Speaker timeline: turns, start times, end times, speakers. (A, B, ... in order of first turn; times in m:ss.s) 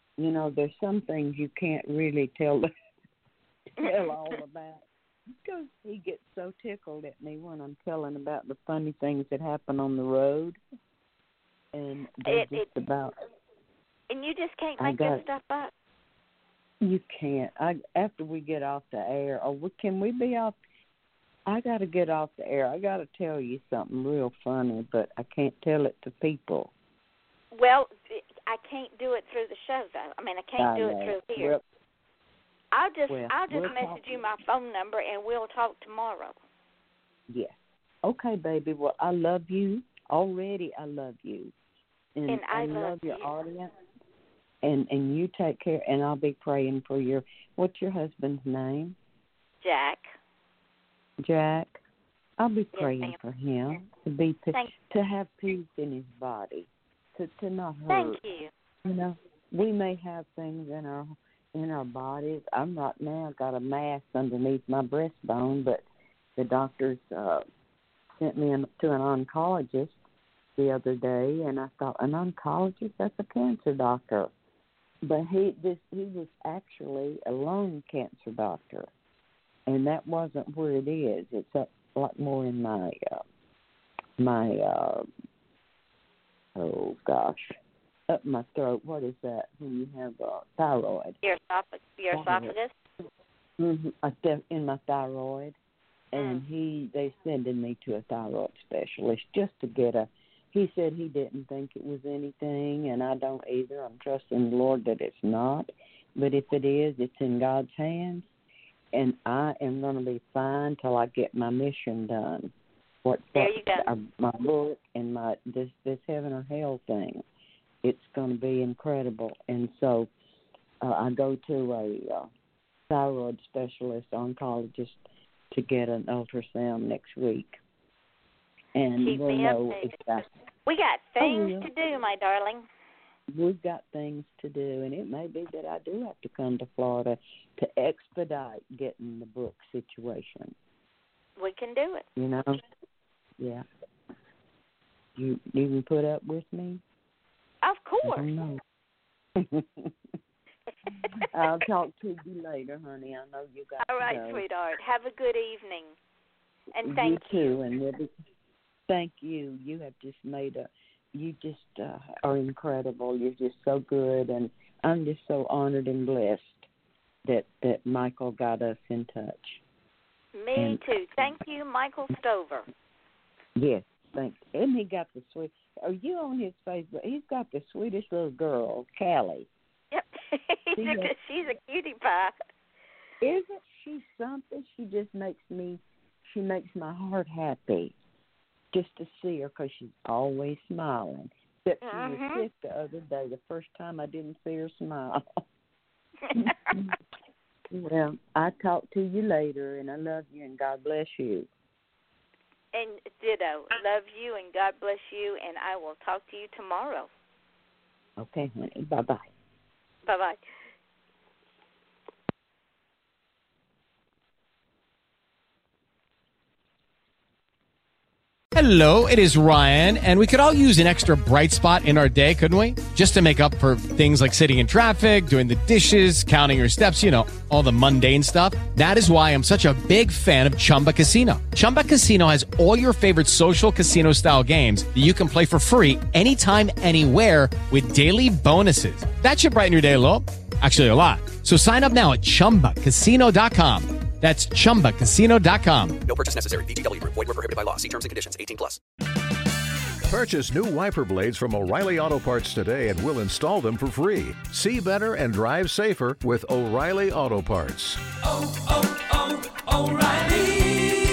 0:00.2-0:02.7 A
0:03.8-0:04.8 A
0:03.8-0:04.3 B
0:05.4-0:10.6 A
0:11.7-0:13.1 A
0:12.2-0:12.7 B
0:14.1-0:15.7 B
0:14.8-0:15.2 A
0:16.8-0:20.6 A
0:21.4-0:26.7 A
0:27.5-0:31.6 B
0:30.6-0:31.6 A
0:32.7-0:36.4 B
0:33.1-0:34.0 A
0:37.3-0:41.5 A
0:42.1-0:43.7 A
0:42.3-0:43.3 B
0:44.6-0:49.0 A
0:49.6-0:50.0 B
0:51.2-0:51.8 A
0:52.4-0:58.2 A
0:52.7-0:53.2 B
0:57.9-0:58.5 B
0:58.8-1:05.8 A
1:06.4-1:07.4 A
1:08.2-1:10.0 A
1:10.6-1:14.3 A
1:15.0-1:18.9 A
1:19.7-1:23.2 A
1:24.2-1:25.0 A
1:26.5-1:27.5 A
1:28.1-1:31.2 A
1:31.2-1:32.8 B
1:32.1-1:32.5 A
1:33.6-1:35.6 A
1:36.1-1:48.3 A
1:36.2-1:36.4 B
1:48.9-1:52.5 A
1:53.0-1:57.2 A
1:53.3-1:53.9 B
1:57.8-2:00.1 A
2:00.8-2:02.3 A
2:02.9-2:07.6 A
2:08.7-2:10.3 A
2:09.0-2:12.6 B
2:11.2-2:11.7 A
2:13.3-2:20.5 A
2:21.4-2:22.0 B
2:22.2-2:22.6 A
2:23.4-2:23.6 A
2:25.1-2:26.8 A
2:27.6-2:28.3 B
2:28.0-2:28.6 A
2:29.4-2:29.9 A
2:31.0-2:31.3 B
2:31.3-2:34.4 A
2:33.8-2:35.9 B
2:36.7-2:37.6 B
2:36.8-2:38.1 A
2:38.9-2:46.7 A
2:47.2-2:49.6 A
2:50.4-2:52.7 B
2:50.6-2:51.3 A
2:53.6-2:59.5 A
2:59.9-3:02.3 B
3:00.8-3:01.1 A
3:03.2-3:07.9 A
3:08.7-3:15.4 A
3:11.8-3:12.4 B
3:16.3-3:17.0 A
3:17.7-3:21.5 A
3:22.7-3:27.1 B
3:28.2-3:29.3 A
3:30.0-3:30.4 B
3:38.5-4:06.0 C
4:06.0-4:08.8 D
4:10.1-4:18.0 E
4:19.8-4:20.5 C